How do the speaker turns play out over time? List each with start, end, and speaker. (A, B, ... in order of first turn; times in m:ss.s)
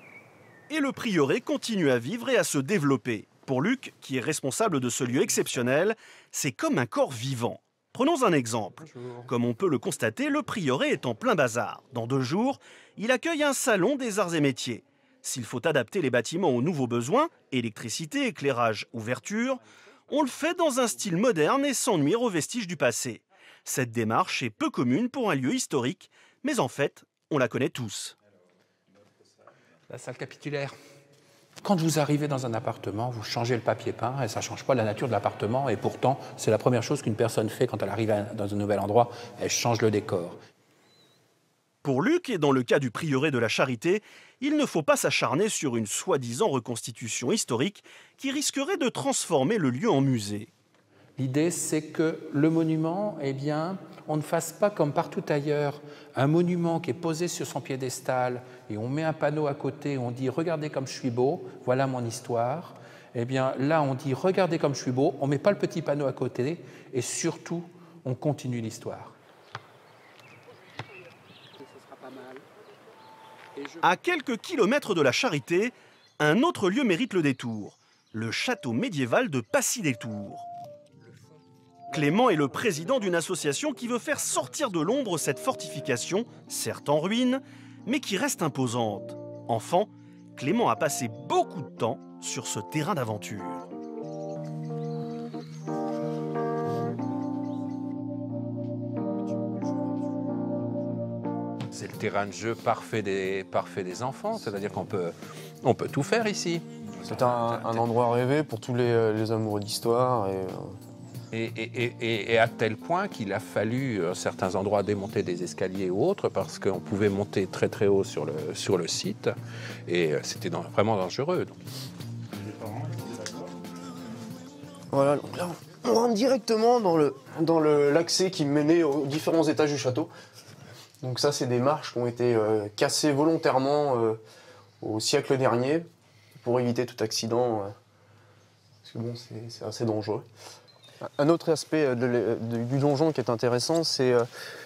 0:00.7-0:28.1 A
0:08.9-0:09.2 B
0:29.9-0:30.7 B
0:31.6-0:40.4 B
0:41.8-0:50.5 A
0:51.2-1:09.1 B
1:13.8-1:20.4 A
1:21.9-1:33.6 A
1:41.7-1:47.9 B
1:47.0-1:50.7 C
1:51.3-1:59.3 B
1:59.9-2:01.6 B
2:04.9-2:10.1 C
2:11.0-2:14.2 C
2:14.8-2:15.9 C
2:16.4-2:17.7 C
2:18.8-2:20.3 C
2:21.0-2:24.3 C